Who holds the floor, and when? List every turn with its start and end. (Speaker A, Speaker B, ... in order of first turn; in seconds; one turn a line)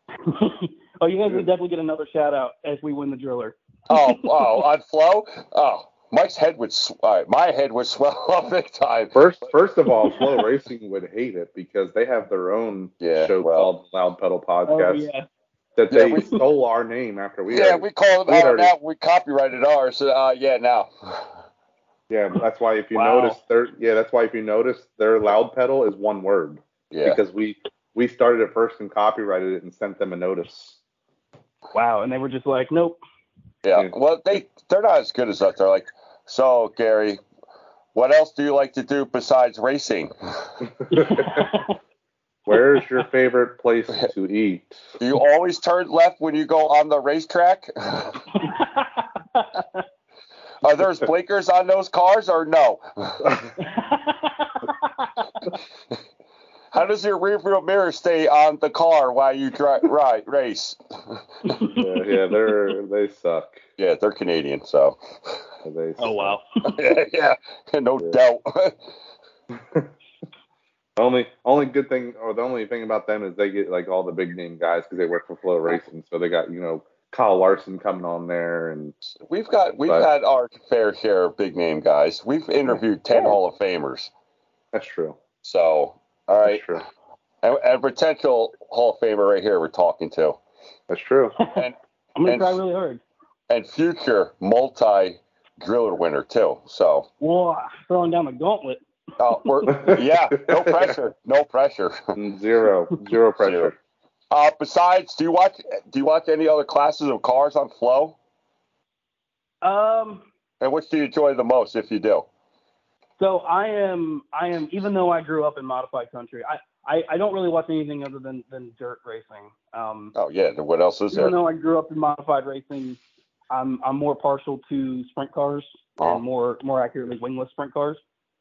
Speaker A: 0.2-4.6
Speaker B: 3.9-9.2
Speaker C: 9.1-15.1
Speaker A: 10.0-10.3
Speaker B: 13.0-13.7
Speaker A: 14.7-15.2
Speaker C: 15.8-18.7
Speaker B: 15.9-16.3
Speaker B: 17.5-21.2
Speaker C: 22.1-30.8
Speaker A: 22.9-23.4
Speaker B: 26.9-27.2
Speaker A: 31.7-33.0
Speaker B: 33.6-37.2
Speaker B: 37.9-40.5
Speaker C: 40.9-41.5
Speaker A: 40.9-41.8
Speaker C: 42.5-44.8
Speaker B: 45.0-48.3
Speaker A: 48.4-49.8
Speaker B: 50.6-53.5
Speaker A: 53.6-55.3
Speaker B: 56.7-61.2
Speaker A: 61.4-62.3
Speaker C: 61.8-63.6
Speaker B: 63.8-65.4
Speaker C: 65.6-66.4
Speaker A: 66.0-66.7
Speaker B: 66.6-68.8
Speaker C: 69.5-69.9
Speaker C: 71.0-78.9
Speaker B: 79.1-84.1
Speaker C: 84.7-85.2
Speaker B: 85.4-86.7
Speaker C: 86.4-86.8
Speaker B: 87.4-90.4
Speaker C: 90.9-91.3
Speaker A: 91.4-93.0
Speaker B: 92.2-92.6
Speaker B: 93.5-97.1
Speaker A: 97.2-99.9
Speaker B: 99.2-102.0
Speaker C: 99.8-100.9
Speaker C: 102.1-103.8
Speaker B: 103.4-103.7
Speaker B: 104.3-108.2
Speaker A: 109.6-110.2
Speaker B: 110.6-112.3
Speaker A: 113.2-120.1
Speaker B: 120.1-121.3
Speaker A: 121.1-123.0
Speaker A: 123.5-128.0